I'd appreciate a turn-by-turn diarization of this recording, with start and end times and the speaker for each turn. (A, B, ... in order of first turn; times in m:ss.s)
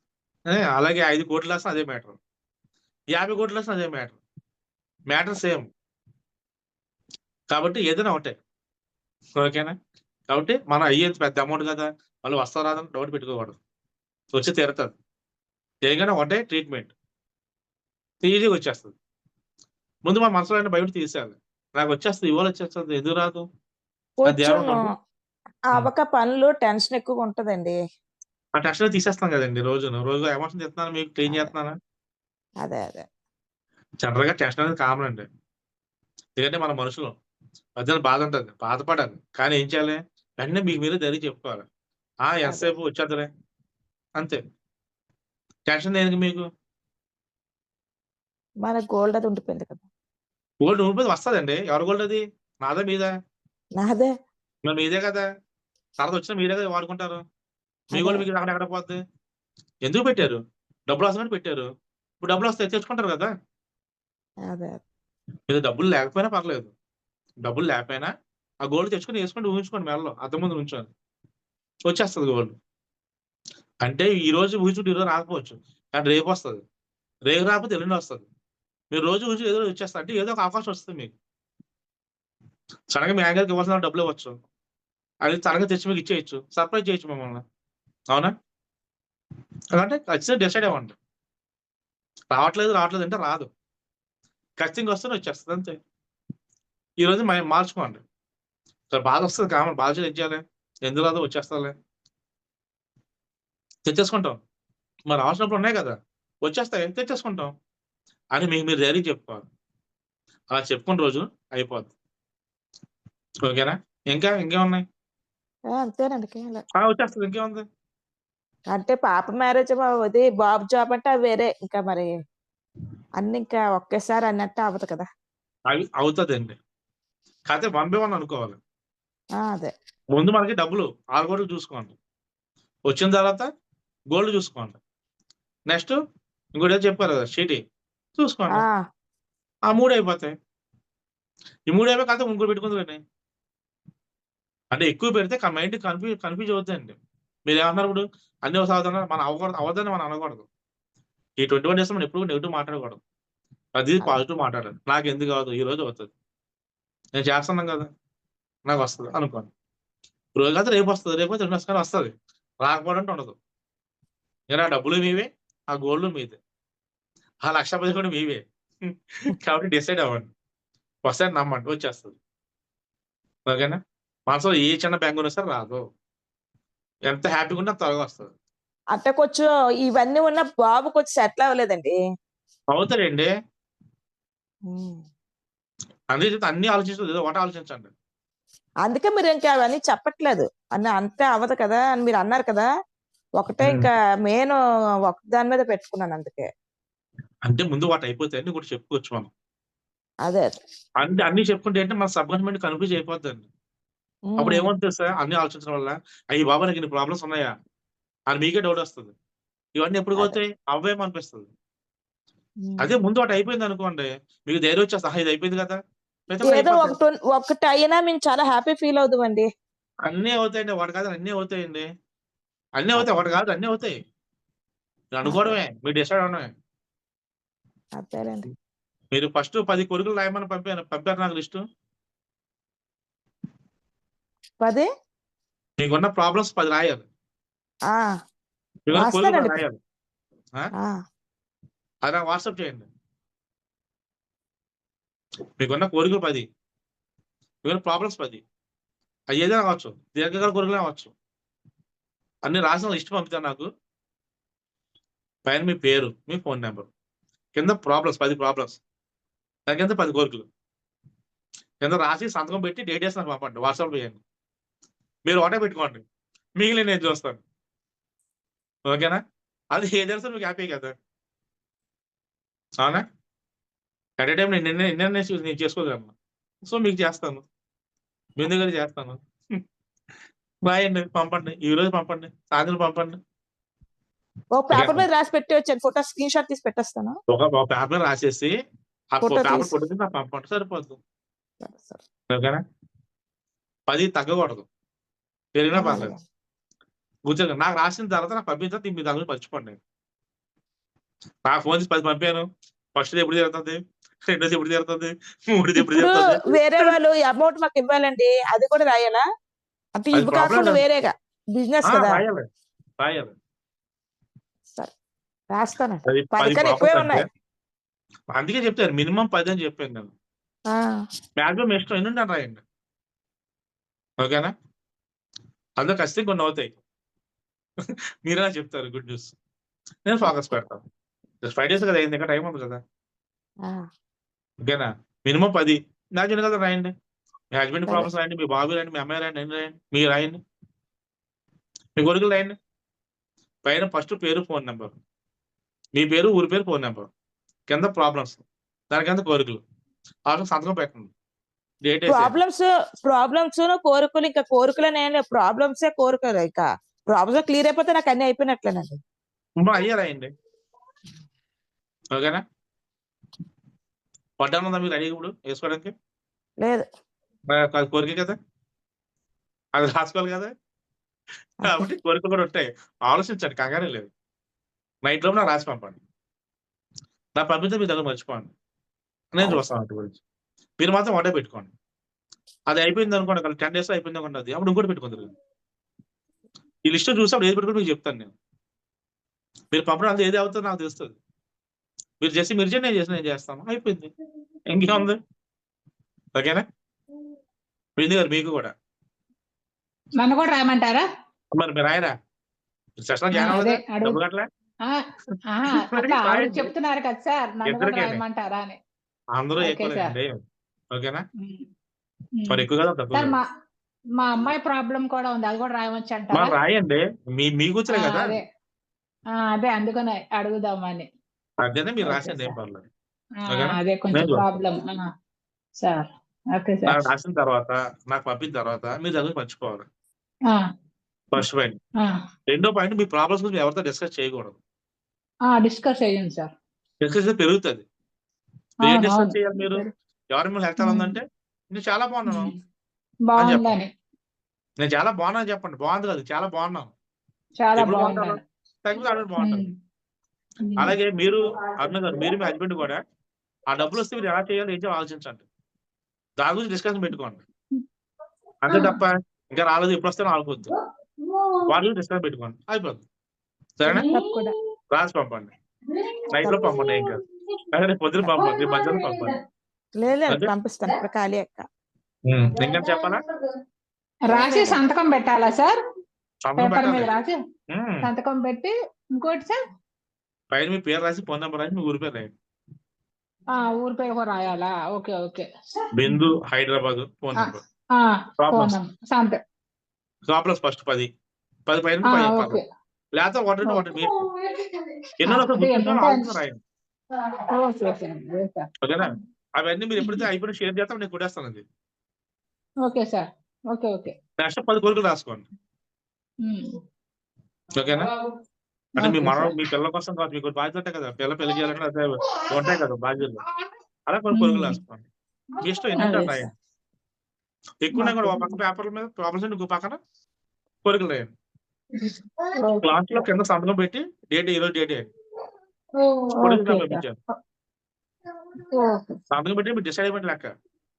0:00.5-0:02.2 A
0:03.1-0:04.2 A
0:05.1-0:05.7 A
0:07.5-0:08.4 A
0:09.4-0:09.8 A
0:10.3-0:13.6 A
0:14.3-0:14.9 A
0:15.8-0:16.9 A
0:18.2-0:18.9 A
0:20.0-0:23.5 A
0:24.2-0:24.9 B
0:24.3-0:24.8 A
0:25.7-0:27.8 B
0:28.6-0:31.8 A
0:32.6-0:33.1 B
0:34.0-0:35.3 A
0:36.4-0:37.1 A
0:37.8-0:41.6 A
0:42.2-0:43.3 A
0:42.4-0:42.7 B
0:45.7-0:46.4 A
0:48.6-0:49.8 B
0:50.6-0:53.1 A
0:53.8-0:54.1 B
0:54.6-0:55.3 A
0:56.0-0:57.2 A
0:57.9-0:59.0 A
0:57.9-0:58.2 B
0:59.8-1:01.7 A
1:02.2-1:03.3 A
1:04.5-1:04.8 B
1:05.5-1:06.7 A
1:07.4-1:08.1 A
1:08.6-1:10.9 A
1:11.8-1:12.5 A
1:13.8-1:16.6 A
1:17.3-1:18.3 A
1:18.9-1:21.1 A
1:22.9-1:24.4 A
1:25.2-1:27.4 A
1:29.7-1:31.0 A
1:32.3-1:33.5 A
1:34.6-1:35.8 A
1:37.0-1:38.0 A
1:38.9-1:41.8 A
1:43.9-1:44.4 A
1:45.1-1:47.5 A
1:48.4-1:49.4 A
1:50.5-1:51.9 A
1:53.5-1:54.8 A
1:55.8-1:56.6 B
1:56.8-1:57.6 A
1:58.7-2:02.1 B
2:03.2-2:05.1 B
2:05.7-2:06.6 A
2:07.5-2:08.6 A
2:09.4-2:09.7 B
2:10.1-2:12.0 A
2:12.9-2:13.5 A
2:14.1-2:14.8 A
2:15.7-2:16.0 A
2:16.6-2:17.6 A
2:18.2-2:18.6 A
2:18.5-2:18.8 B
2:19.7-2:20.3 A
2:21.7-2:23.0 A
2:24.7-2:27.0 A
2:27.5-2:30.5 A
2:31.4-2:33.0 A
2:33.8-2:36.1 A
2:37.2-2:37.9 A
2:38.7-2:39.5 A
2:40.4-2:43.4 A
2:44.5-2:46.4 A
2:47.4-2:50.3 A
2:51.0-2:52.2 A
2:53.5-2:55.8 A
2:57.1-2:58.3 A
2:59.0-3:02.0 B
3:02.7-3:03.3 A
3:04.7-3:05.0 B
3:06.1-3:07.9 A
3:08.8-3:12.7 B
3:13.4-3:14.6 B
3:13.6-3:13.9 A
3:15.1-3:16.5 B
3:17.4-3:19.3 A
3:21.0-3:23.5 A
3:24.3-3:24.7 B
3:24.4-3:27.5 A
3:28.3-3:29.1 A
3:29.8-3:31.5 A
3:32.6-3:33.0 B
3:32.8-3:37.0 A
3:36.5-3:39.5 B
3:40.0-3:41.9 A
3:42.8-3:44.0 A
3:45.1-3:46.5 A
3:45.2-3:45.6 B
3:48.0-3:48.5 B
3:49.1-3:51.6 A
3:54.6-3:54.9 B
3:55.8-3:57.0 A
3:58.9-3:59.8 A
3:58.9-3:59.6 B
4:02.0-4:02.9 A
4:05.6-4:06.4 A
4:07.6-4:08.4 A
4:09.3-4:11.1 A
4:12.4-4:13.7 A
4:15.5-4:16.9 A
4:17.6-4:18.8 A
4:19.7-4:20.5 A
4:21.8-4:24.2 A
4:25.3-4:26.0 A
4:26.6-4:27.4 A
4:28.9-4:29.2 A
4:29.7-4:30.9 A
4:34.2-4:36.1 A
4:36.7-4:37.4 A
4:38.4-4:39.2 A
4:40.7-4:43.2 A
4:44.6-4:47.2 B
4:44.7-4:45.1 A
4:47.3-4:48.5 A
4:49.1-4:51.0 A
4:49.2-4:49.7 B
4:51.6-4:52.0 B
4:52.3-4:52.6 A
4:53.9-4:54.7 A
4:55.6-4:56.1 A
4:55.8-4:56.2 B
4:57.3-4:59.8 A
5:01.5-5:07.0 A
5:05.8-5:09.2 B
5:10.0-5:12.2 B
5:10.1-5:10.8 A
5:11.9-5:12.5 A
5:13.0-5:13.3 A
5:15.5-5:17.2 B
5:16.1-5:17.3 A
5:18.3-5:20.1 A
5:20.7-5:21.0 B
5:21.4-5:22.6 A
5:24.2-5:24.5 A
5:25.8-5:26.8 A
5:28.2-5:29.3 A
5:30.1-5:30.8 A
5:31.4-5:32.8 A
5:34.6-5:36.9 A
5:37.5-5:40.4 A
5:42.0-5:42.6 A
5:43.6-5:45.0 A
5:46.0-5:47.1 A
5:47.7-5:49.6 A
5:50.3-5:51.1 A
5:51.8-5:52.4 A
5:52.1-5:59.0 B
5:59.6-6:00.3 A
6:02.1-6:02.4 A
6:04.4-6:05.9 A
6:07.5-6:08.4 A
6:09.8-6:10.5 A
6:11.6-6:14.1 A
6:15.0-6:16.0 A
6:17.4-6:18.5 A
6:19.3-6:20.2 A
6:20.8-6:21.7 A
6:22.7-6:25.3 A
6:26.8-6:28.3 A
6:29.7-6:31.2 A
6:32.2-6:34.1 A
6:34.7-6:35.2 A
6:36.4-6:36.6 A
6:38.0-6:38.7 A
6:40.2-6:41.1 C
6:41.6-6:42.1 A
6:43.0-6:44.5 A
6:43.4-6:44.2 C
6:45.3-6:46.7 A
6:45.5-6:48.8 C
6:47.6-6:48.2 A
6:49.4-6:50.4 A
6:49.6-6:50.1 C
6:50.9-6:51.2 A
6:51.4-6:51.6 C
6:52.4-6:52.6 C
6:52.5-6:53.4 A
6:53.1-6:53.4 C
6:54.2-6:56.5 C
6:56.3-6:58.4 A
6:58.0-6:58.4 C
6:59.5-7:01.1 C
7:01.6-7:02.9 A
7:02.0-7:02.5 C
7:03.5-7:04.5 A
7:03.5-7:05.0 C
7:06.6-7:07.0 C
7:06.9-7:09.8 A
7:11.3-7:11.8 A
7:12.5-7:14.6 A
7:15.5-7:16.5 C
7:17.0-7:17.8 A
7:18.8-7:19.8 A
7:18.8-7:19.9 C
7:20.3-7:22.5 A
7:20.8-7:21.2 C
7:22.3-7:22.6 C
7:23.4-7:23.9 C
7:23.4-7:23.8 A
7:24.8-7:26.9 A
7:27.6-7:28.4 C
7:27.8-7:29.7 A
7:29.4-7:29.7 C
7:30.7-7:30.9 C
7:30.8-7:33.0 A
7:33.7-7:35.4 A
7:36.4-7:37.4 A
7:38.6-7:40.7 A
7:38.7-7:39.0 C
7:41.2-7:41.6 C
7:41.7-7:43.0 A
7:43.8-7:44.1 A
7:43.9-7:44.5 C
7:44.1-7:44.5 B
7:44.9-7:45.5 A
7:46.3-7:47.2 A
7:46.4-7:46.8 B
7:47.7-7:49.4 A
7:48.5-7:49.2 C
7:50.0-7:51.6 B
7:52.3-7:53.2 A
7:54.3-7:54.8 B
7:54.3-7:55.8 C
7:56.4-7:57.1 A
7:56.6-7:57.4 C
7:57.7-7:58.1 A
7:58.0-7:59.6 C
8:00.5-8:02.3 A
8:03.6-8:05.5 C
8:05.9-8:07.6 A
8:06.0-8:06.4 C
8:07.4-8:09.4 C
8:08.4-8:08.7 A
8:10.3-8:11.1 A
8:11.7-8:12.6 A
8:12.1-8:12.6 C
8:13.2-8:14.2 A
8:13.6-8:14.7 C
8:15.2-8:16.6 A
8:15.3-8:16.3 C
8:17.5-8:18.7 C
8:18.8-8:21.6 A
8:22.9-8:24.1 C
8:24.4-8:25.5 A
8:27.8-8:28.1 A
8:29.0-8:33.4 A
8:29.0-8:29.5 C
8:34.1-8:35.1 A
8:34.3-8:34.8 C
8:35.6-8:36.5 A
8:36.0-8:36.4 C
8:36.0-8:36.4 B
8:37.8-8:40.0 A
8:37.9-8:38.5 C
8:40.8-8:41.3 A
8:42.0-8:43.2 C
8:42.8-8:45.1 A
8:46.0-8:47.0 C
8:46.4-8:47.2 A
8:48.7-8:49.2 C
8:49.3-8:50.5 A